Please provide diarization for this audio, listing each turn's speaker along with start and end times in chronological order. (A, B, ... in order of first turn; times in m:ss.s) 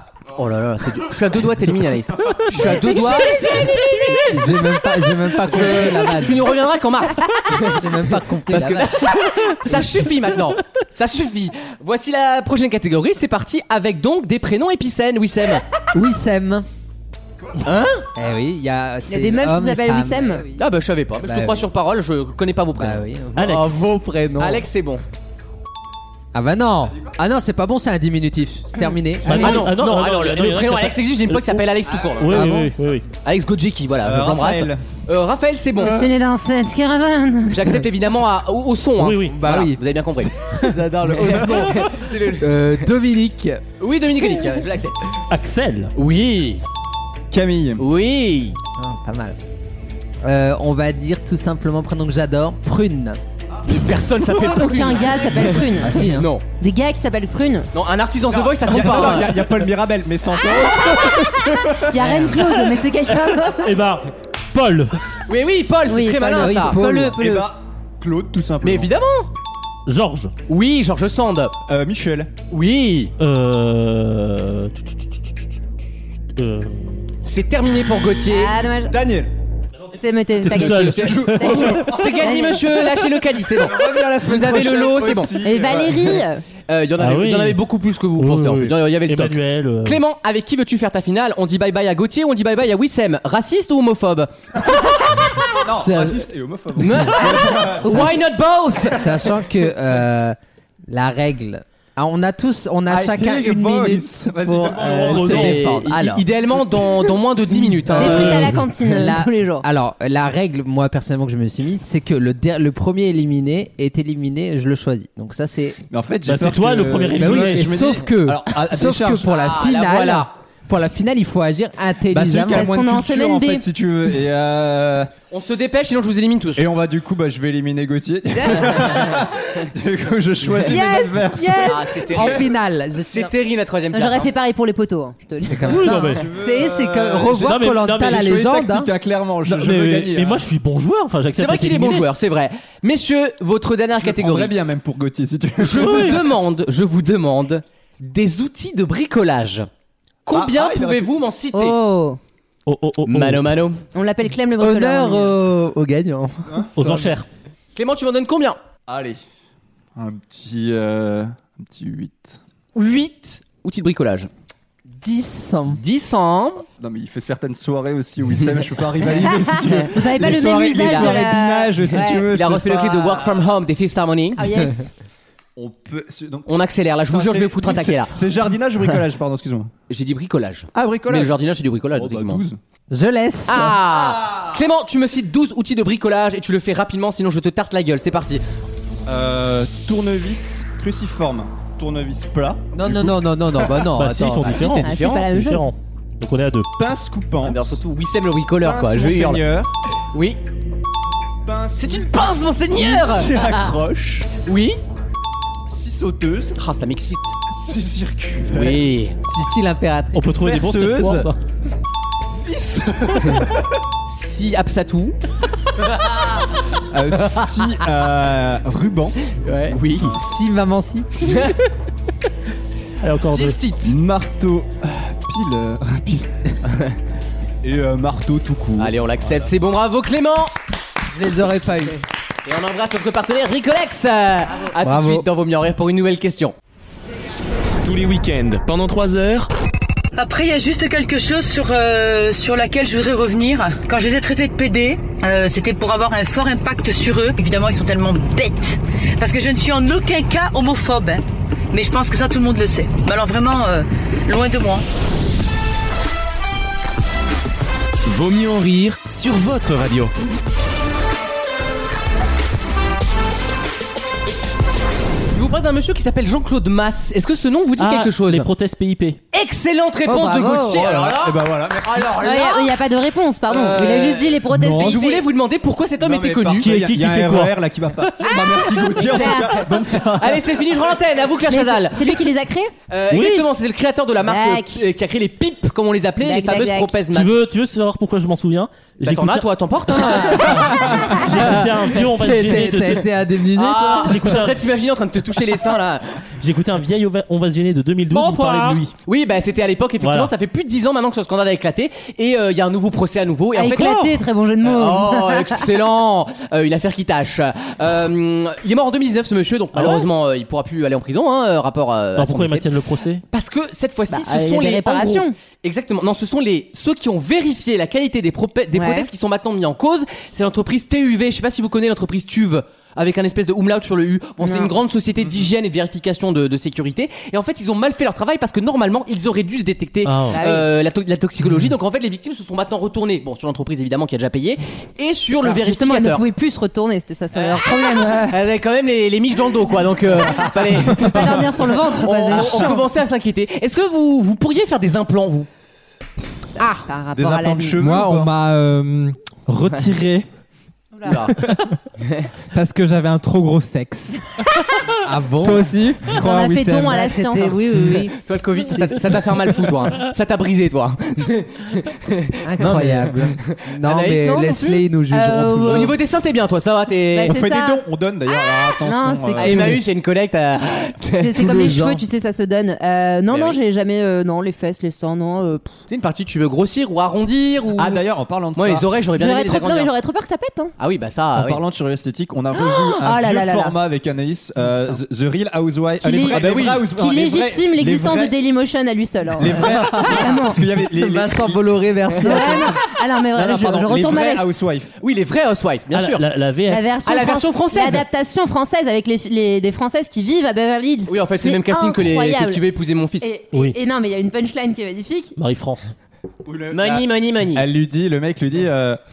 0:00.3-0:03.8 A
0:02.5-0:03.3 B
0:02.7-0:04.3 C
0:04.1-0:06.4 B
0:05.4-0:15.6 A
0:07.6-0:09.1 B
0:09.7-0:10.1 B
0:15.9-0:16.6 B
0:17.6-0:18.1 A
0:18.1-0:20.6 B
0:19.1-0:20.5 C
0:20.6-0:23.6 A
0:21.2-0:21.6 B
0:22.8-0:24.6 B
0:23.4-0:23.9 D
0:24.4-0:25.0 A
0:26.3-0:29.7 B
0:29.2-0:31.6 D
0:29.2-0:32.6 A
0:31.9-0:32.3 E
0:32.2-0:33.0 D
0:32.3-0:32.7 B
0:33.2-0:36.1 A
0:34.0-0:34.8 E
0:35.8-0:37.7 C
0:37.5-0:42.9 A
0:39.0-0:39.4 D
0:39.3-0:39.8 B
0:40.4-0:41.8 B
0:42.4-0:43.6 B
0:43.8-0:45.1 A
0:45.3-0:45.9 D
0:45.9-0:46.6 A
0:47.3-0:47.8 E
0:47.8-0:48.6 A
0:48.8-0:49.4 B
0:50.2-0:53.2 B
0:53.6-0:56.4 A
0:54.5-0:57.7 C
0:55.8-0:56.3 B
0:57.7-0:59.5 A
0:58.3-1:02.8 E
1:01.7-1:03.7 C
1:01.9-1:02.4 B
1:03.6-1:05.0 D
1:05.3-1:06.8 A
1:05.8-1:07.5 C
1:06.3-1:07.2 B
1:07.1-1:08.9 E
1:08.6-1:09.3 A
1:09.8-1:10.3 D
1:10.5-1:11.6 A
1:11.7-1:12.3 E
1:12.5-1:13.1 A
1:13.2-1:15.5 D
1:16.3-1:17.1 D
1:17.2-1:18.6 A
1:18.2-1:18.9 C
1:18.9-1:19.3 E
1:19.8-1:22.0 D
1:19.9-1:22.8 C
1:20.4-1:25.9 A
1:21.5-1:22.1 E
1:23.5-1:26.0 E
1:25.4-1:26.4 C
1:26.7-1:34.3 A
1:27.0-1:27.6 D
1:28.2-1:30.0 D
1:35.6-1:38.2 E
1:35.7-1:36.2 B
1:36.8-1:39.2 A
1:38.9-1:46.2 B
1:42.9-1:45.5 E
1:44.8-1:45.6 D
1:45.1-1:48.5 A
1:47.8-1:55.8 B
1:47.9-1:49.6 C
1:55.9-1:59.3 E
1:56.2-1:57.9 D
1:57.2-2:02.7 B
1:59.2-2:00.3 A
2:02.1-2:05.1 E
2:02.5-2:03.6 C
2:05.3-2:06.7 A
2:06.6-2:12.3 E
2:10.6-2:13.3 B
2:11.6-2:14.3 A
2:13.9-2:15.8 C
2:15.4-2:18.9 B
2:15.6-2:16.3 D
2:15.8-2:20.4 E
2:17.3-2:18.3 D
2:19.4-2:22.1 D
2:21.3-2:24.5 A
2:23.9-2:26.2 E
2:25.6-2:29.7 A
2:25.8-2:26.2 D
2:30.2-2:31.8 A
2:30.3-2:31.1 E
2:31.5-2:32.2 C
2:32.6-2:33.6 D
2:33.0-2:33.8 A
2:33.9-2:35.4 C
2:34.6-2:37.0 B
2:36.5-2:36.7 E
2:36.8-2:37.3 D
2:37.7-2:38.6 A
2:38.9-2:39.2 E
2:39.9-2:42.4 E
2:42.7-2:44.3 A
2:44.9-2:45.8 B
2:45.7-2:46.6 A
2:46.8-2:53.5 E
2:49.7-2:52.3 C
2:50.7-2:51.2 A
2:51.9-2:54.7 A
2:54.4-2:54.9 C
2:55.6-2:59.7 E
2:56.5-2:58.2 A
2:59.9-3:02.4 A
3:00.7-3:01.3 E
3:01.9-3:02.6 E
3:02.9-3:03.8 B
3:03.5-3:08.4 A
3:04.0-3:04.5 E
3:09.0-3:13.8 E
3:12.7-3:14.6 B
3:13.9-3:16.7 D
3:14.4-3:15.3 A
3:14.8-3:15.7 C
3:16.8-3:17.8 E
3:17.4-3:19.4 A
3:18.6-3:19.7 E
3:20.1-3:20.4 A
3:21.4-3:24.3 E
3:21.8-3:23.8 A
3:24.4-3:24.8 A
3:25.7-3:26.6 E
3:26.6-3:27.4 A
3:27.5-3:28.9 E
3:28.4-3:29.2 A
3:29.2-3:30.3 B
3:30.1-3:31.4 D
3:30.4-3:31.3 E
3:32.3-3:33.7 E
3:34.1-3:35.2 A
3:36.9-3:40.2 E
3:39.4-3:40.2 A
3:40.2-3:41.4 B
3:41.2-3:41.6 A
3:43.0-3:43.6 D
3:43.2-3:43.9 A
3:43.8-3:46.6 E
3:47.6-3:49.5 E
3:48.8-3:50.5 A
3:51.1-3:52.0 B
3:52.4-3:56.5 A
3:54.8-3:55.3 B
3:57.8-3:59.5 F
4:00.1-4:14.8 G
4:18.0-4:20.1 F
4:25.3-4:28.5 A
4:27.8-4:29.2 D
4:29.3-4:32.7 A
4:30.1-4:30.8 B
4:30.7-4:32.2 E
4:32.2-4:35.3 C
4:33.5-4:36.8 A
4:34.5-4:35.0 H
4:36.0-4:41.0 E
4:36.6-4:37.5 D
4:38.4-4:39.6 C
4:38.9-4:42.3 A
4:41.5-4:42.7 C
4:42.9-4:47.4 A
4:43.1-4:43.5 D
4:44.2-4:44.8 C
4:46.2-4:47.0 C
4:47.1-4:49.5 D
4:49.0-4:51.7 A
4:50.0-4:53.1 D
4:50.9-4:51.2 C
4:51.6-4:54.4 B
4:53.5-4:56.3 A
4:54.0-4:54.6 D
4:56.4-4:58.9 D
4:58.1-5:12.7 A
4:58.2-4:58.8 B
5:00.0-5:00.3 D
5:03.5-5:05.6 C
5:09.7-5:10.1 D
5:12.2-5:13.2 D
5:13.3-5:36.2 A
5:14.1-5:15.3 C
5:18.7-5:19.1 C
5:24.4-5:24.7 C
5:30.0-5:30.4 D
5:30.3-5:30.7 C
5:35.4-5:38.4 C
5:37.3-5:45.5 A
5:40.4-5:42.9 C
5:46.6-5:46.9 A
5:46.9-5:47.8 C
5:47.1-5:48.3 E
5:47.8-5:50.2 H
5:50.9-5:51.3 C
5:51.0-5:51.4 A
5:52.0-5:52.3 A
5:52.5-5:54.2 H
5:55.0-5:55.7 B
5:55.4-5:57.5 H
5:56.1-5:57.6 C
5:56.8-5:59.1 B
5:58.1-6:04.9 A
6:02.4-6:05.9 B
6:02.6-6:03.1 H
6:05.1-6:06.0 C
6:05.6-6:07.4 A
6:07.1-6:07.8 C
6:07.2-6:09.8 E
6:08.4-6:09.8 C
6:09.4-6:11.8 A
6:11.2-6:15.8 C
6:11.4-6:12.0 B
6:13.3-6:13.6 A
6:15.9-6:18.0 A
6:17.8-6:18.9 E
6:18.6-6:19.9 A
6:19.1-6:20.7 C
6:20.8-6:21.6 A
6:21.3-6:28.4 E
6:22.5-6:23.8 C
6:26.0-6:30.6 C
6:26.3-6:26.9 A
6:29.4-6:31.8 E
6:30.9-6:32.8 B
6:32.2-6:34.5 C
6:33.3-6:34.9 E
6:35.0-6:36.2 A
6:35.9-6:36.9 D
6:36.7-6:42.6 C
6:37.0-6:38.0 A
6:41.1-6:43.3 A
6:43.2-6:45.4 C
6:45.4-6:45.9 D
6:46.4-6:49.0 E
6:46.7-6:47.6 A